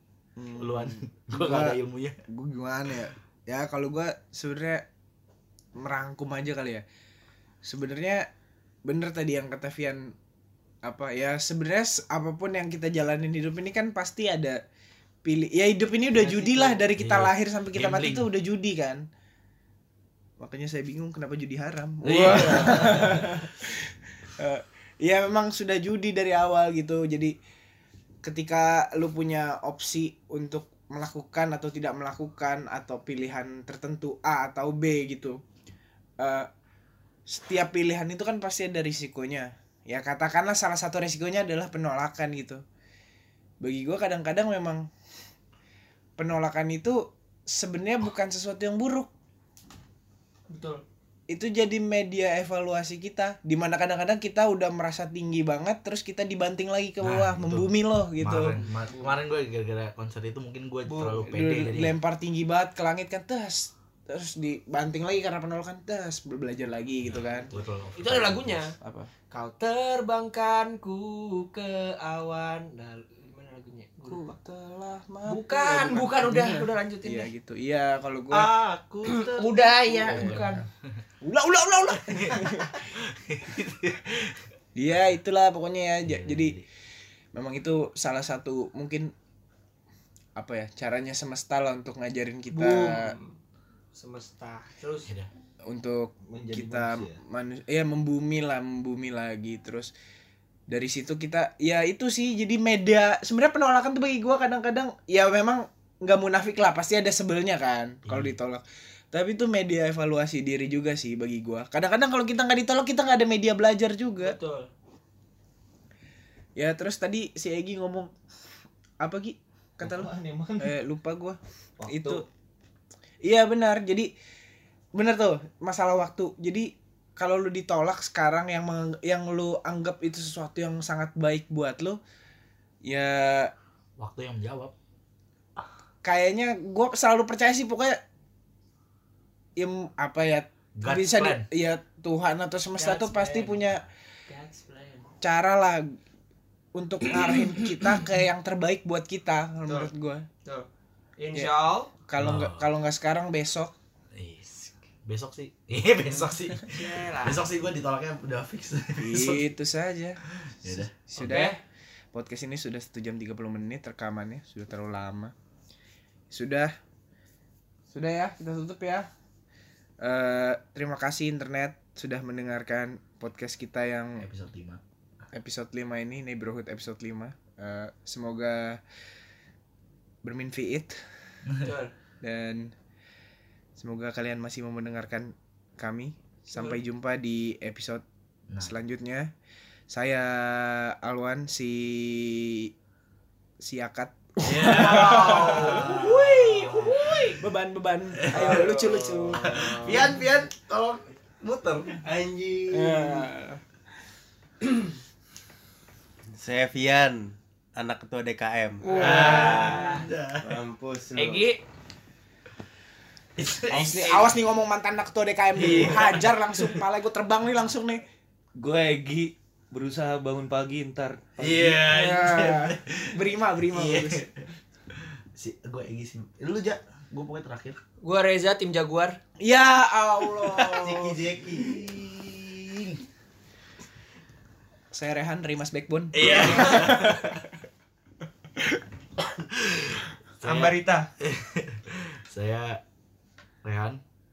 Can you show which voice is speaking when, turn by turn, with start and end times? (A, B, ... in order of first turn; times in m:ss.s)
0:00.4-0:01.8 A
0:00.6-0:02.2 B
0:02.3-0:04.8 A
0:05.8-0:06.8 A
0:07.6-0:08.3 A
0:08.8-0:10.1 A
0:10.8-0:14.6 A
0:15.2-0:19.0 A
0:16.2-0:18.3 B
0:16.3-0:16.9 C
0:20.4-0:23.8 A
0:22.0-0:23.3 B
0:24.4-0:27.4 A
0:28.2-0:35.4 A
0:36.2-0:36.5 A
0:37.3-0:42.6 A
0:43.6-0:44.9 A
0:46.2-0:49.1 A
0:50.5-0:50.8 C
0:51.3-0:58.6 A
0:57.0-1:02.0 B
1:00.9-1:07.5 A
1:07.1-1:08.8 C
1:07.5-1:08.6 B
1:08.8-1:09.1 A
1:09.3-1:14.3 C
1:14.1-1:18.5 A
1:15.2-1:17.3 C
1:18.3-1:20.5 B
1:19.0-1:20.6 C
1:20.0-1:20.7 A
1:21.2-1:22.8 A
1:22.0-1:24.4 B
1:24.8-1:26.6 A
1:26.0-1:26.6 B
1:27.3-1:29.1 A
1:30.4-1:33.2 A
1:32.5-1:33.4 C
1:34.0-1:35.1 C
1:35.7-1:39.9 A
1:36.3-1:37.2 D
1:40.7-1:54.4 A
1:48.1-1:48.4 B
1:54.2-1:54.7 C
1:56.6-1:58.1 A
1:59.0-2:02.2 A
1:59.8-2:00.8 D
2:01.8-2:02.2 D
2:01.8-2:02.2 C
2:03.2-2:04.1 A
2:05.0-2:12.0 A
2:12.8-2:13.5 A
2:14.0-2:14.7 B
2:16.0-2:18.0 A
2:19.6-2:23.8 A
2:20.8-2:21.5 B
2:22.8-2:23.6 C
2:24.3-2:25.1 C
2:25.2-2:26.0 A
2:26.7-2:30.3 A
2:27.2-2:27.5 B
2:29.6-2:29.9 C
2:30.4-2:31.9 C
2:31.3-2:33.7 A
2:32.2-2:32.7 B
2:34.2-2:39.4 B
2:36.7-2:37.5 C
2:39.0-2:41.6 A
2:40.4-2:40.9 B
2:41.2-2:41.6 C
2:42.1-2:45.3 A
2:46.3-2:46.7 A
2:47.9-2:49.1 A
2:50.0-2:54.3 A
2:54.2-2:54.8 B
2:55.3-2:58.8 A
3:00.2-3:01.0 A
3:01.6-3:01.9 C
3:02.2-3:02.7 A
3:03.8-3:08.0 A
3:06.5-3:06.8 C
3:08.6-3:09.3 A
3:09.9-3:12.7 A
3:13.6-3:19.6 A
3:14.4-3:17.0 B
3:15.0-3:17.4 C
3:18.2-3:22.0 B
3:18.3-3:20.2 E
3:22.0-3:23.3 E
3:22.7-3:23.6 A
3:26.3-3:31.5 E
3:28.9-3:29.8 A
3:29.0-3:30.5 B
3:29.0-3:30.0 C
3:31.2-3:31.6 C
3:33.4-3:34.3 B
3:33.7-3:38.0 A
3:35.6-3:36.8 B
3:38.6-3:41.9 D
3:41.4-3:44.4 B
3:41.9-3:44.2 A
3:45.0-3:47.8 B
3:48.0-3:49.2 C
3:49.4-3:51.1 A
3:50.4-3:53.0 B
3:50.7-3:51.8 E
3:54.9-3:57.4 A
3:56.1-3:57.4 B
3:56.3-3:56.8 C
3:59.4-4:02.8 B
4:00.4-4:01.1 C
4:03.6-4:04.0 B